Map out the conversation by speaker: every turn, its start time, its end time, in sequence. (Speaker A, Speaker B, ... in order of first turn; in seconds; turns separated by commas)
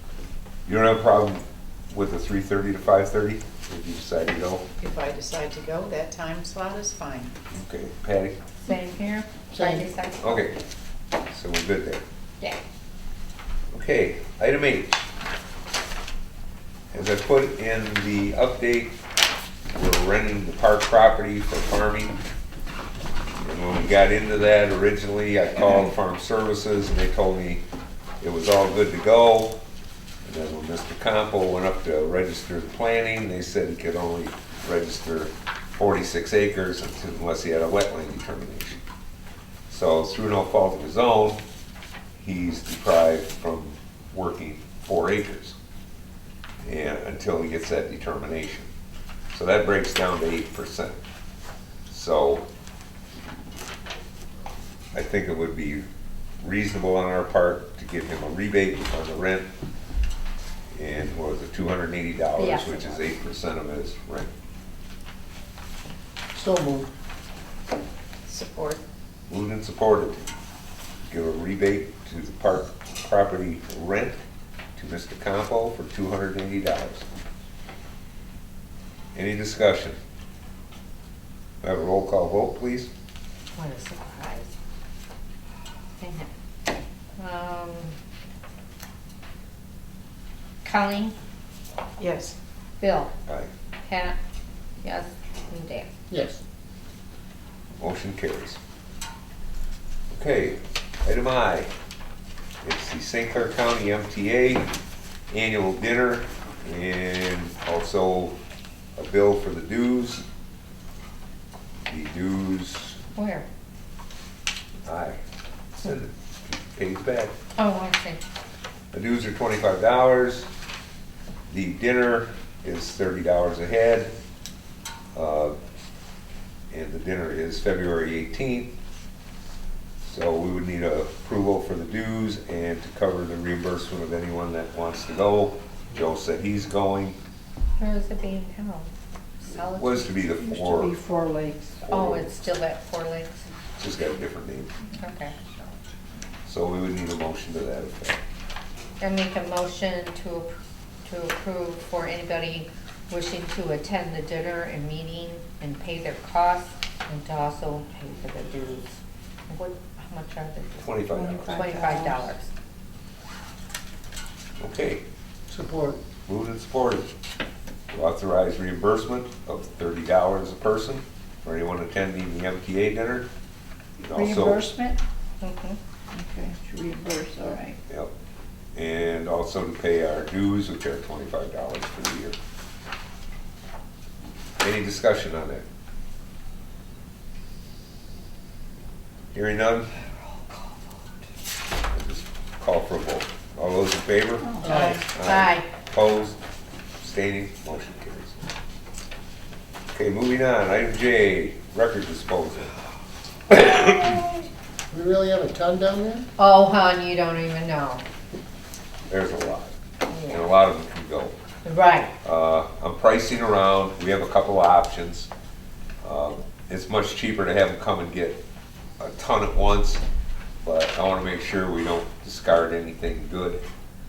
Speaker A: 0.7-4.6, Speaker B: 4.8-7.3, Speaker A: 7.5-8.3, Speaker C: 8.7-10.4, Speaker A: 10.2-10.6, Speaker A: 11.3-12.0, Speaker A: 13.7-15.0, Speaker A: 16.9-18.9, Speaker A: 19.7-22.1, Speaker A: 23.4-27.6, Speaker A: 28.2-29.6, Speaker A: 30.2-38.8, Speaker A: 39.7-41.4, Speaker A: 42.2-45.5, Speaker A: 46.6-48.7, Speaker A: 49.3-51.0, Speaker A: 51.9-52.5, Speaker A: 54.9-55.8, Speaker A: 56.4-59.5, Speaker A: 60.7-64.3, Speaker C: 62.4-62.9, Speaker D: 66.3-66.9, Speaker B: 68.2-68.8, Speaker A: 69.3-70.3, Speaker A: 71.0-74.2, Speaker A: 74.8-77.0, Speaker A: 79.1-80.0, Speaker A: 81.6-82.9, Speaker C: 83.5-84.5, Speaker C: 86.0-86.3, Speaker C: 87.2-88.0, Speaker C: 90.6-91.1, Speaker B: 92.0-92.3, Speaker C: 92.8-93.1, Speaker A: 93.2-93.5, Speaker C: 93.8-94.2, Speaker C: 94.8-95.9, Speaker D: 96.1-96.4, Speaker A: 97.8-98.6, Speaker A: 100.1-101.7, Speaker A: 102.6-104.6, Speaker A: 105.3-108.3, Speaker A: 109.0-110.2, Speaker A: 111.9-113.0, Speaker C: 113.1-113.5, Speaker A: 114.8-115.2, Speaker A: 115.7-117.3, Speaker C: 117.5-118.2, Speaker A: 118.9-120.5, Speaker A: 121.5-124.1, Speaker A: 125.1-125.6, Speaker A: 126.7-128.7, Speaker A: 130.0-137.2, Speaker C: 137.8-140.2, Speaker A: 139.6-141.0, Speaker E: 140.3-141.8, Speaker A: 141.8-142.5, Speaker C: 141.9-143.4, Speaker A: 143.8-144.7, Speaker C: 144.9-145.3, Speaker A: 146.4-148.2, Speaker C: 149.0-159.0, Speaker C: 159.5-161.0, Speaker A: 160.8-161.6, Speaker E: 161.0-162.3, Speaker C: 161.5-162.5, Speaker A: 164.6-165.0, Speaker D: 165.5-166.0, Speaker A: 166.2-167.1, Speaker A: 167.9-173.3, Speaker A: 174.0-174.7, Speaker E: 174.1-175.0, Speaker C: 175.4-175.8, Speaker E: 176.1-177.8, Speaker A: 177.9-178.1, Speaker A: 178.8-182.4, Speaker A: 184.6-185.6, Speaker A: 189.3-189.9, Speaker A: 191.9-196.4, Speaker E: 194.4-195.0, Speaker B: 194.6-195.0, Speaker C: 195.3-195.7, Speaker A: 197.0-198.3, Speaker A: 199.9-202.7, Speaker D: 204.9-206.3, Speaker C: 206.4-208.0, Speaker A: 209.1-209.8, Speaker C: 210.1-210.5, Speaker A: 210.3-211.3, Speaker C: 211.6-212.1, Speaker A: 212.2-215.3, Speaker A: 216.0-218.4, Speaker A: 219.0-220.0, Speaker A: 220.6-223.6